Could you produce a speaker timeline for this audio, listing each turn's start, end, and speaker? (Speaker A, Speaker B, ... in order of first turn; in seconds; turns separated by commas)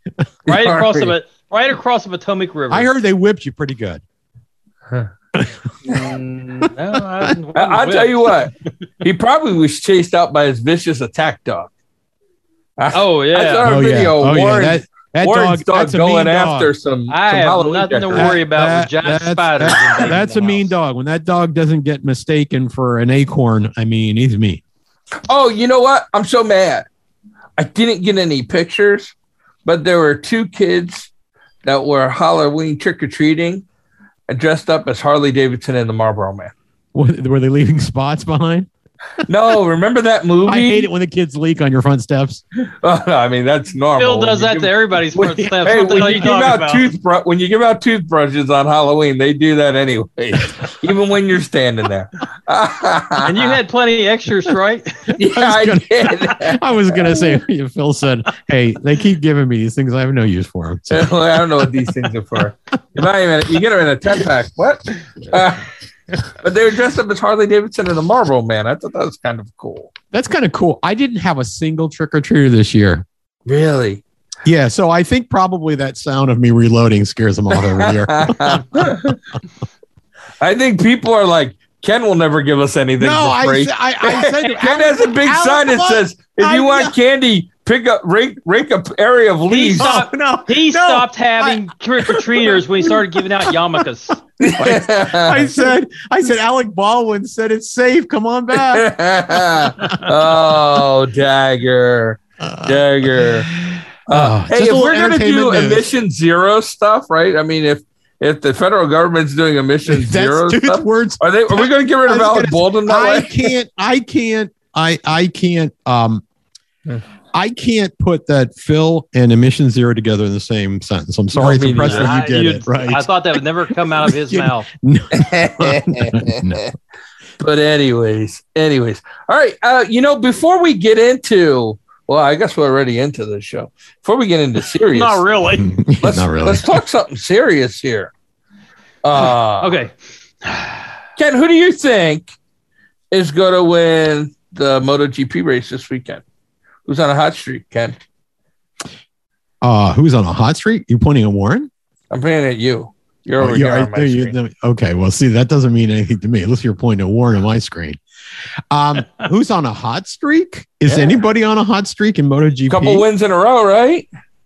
Speaker A: 0.5-1.1, Speaker B: 0.5-2.9, Speaker C: 2.7-4.0, Speaker C: 5.3-5.6, Speaker B: 5.9-8.3, Speaker C: 7.0-7.3, Speaker A: 7.5-11.7, Speaker A: 12.8-18.4, Speaker B: 12.9-13.7, Speaker C: 13.6-16.7, Speaker B: 17.1-20.7, Speaker C: 18.1-24.6, Speaker A: 25.3-26.9, Speaker A: 27.6-29.1, Speaker A: 29.6-31.1, Speaker A: 31.6-33.6, Speaker A: 34.3-36.5, Speaker C: 36.9-38.7, Speaker A: 39.3-40.9, Speaker C: 40.5-42.4, Speaker A: 42.6-53.6, Speaker B: 44.0-46.9, Speaker B: 53.2-55.1, Speaker A: 55.2-56.6, Speaker C: 55.2-62.0, Speaker A: 60.9-65.7, Speaker A: 66.3-69.9, Speaker C: 70.1-73.0, Speaker A: 73.5-74.0, Speaker C: 74.5-79.2, Speaker A: 77.5-79.2, Speaker A: 80.4-89.9, Speaker C: 83.0-87.0, Speaker B: 89.5-94.2, Speaker C: 89.8-93.8, Speaker A: 94.4-95.5, Speaker C: 94.6-100.6, Speaker A: 98.5-103.5, Speaker C: 102.4-105.9, Speaker A: 104.1-113.4, Speaker C: 109.9-116.2, Speaker C: 117.3-126.7, Speaker A: 121.3-122.1, Speaker B: 121.8-124.7, Speaker A: 125.1-126.7, Speaker A: 127.4-135.2, Speaker B: 134.9-135.8, Speaker C: 135.6-136.8, Speaker A: 136.0-138.1, Speaker A: 139.0-139.8, Speaker B: 139.6-139.9, Speaker B: 140.4-140.8, Speaker A: 141.2-142.3, Speaker A: 143.1-146.2, Speaker A: 146.9-148.0, Speaker C: 149.6-151.7, Speaker A: 152.1-154.3, Speaker C: 153.4-158.0, Speaker C: 158.7-163.1, Speaker A: 160.9-161.2, Speaker A: 162.7-164.1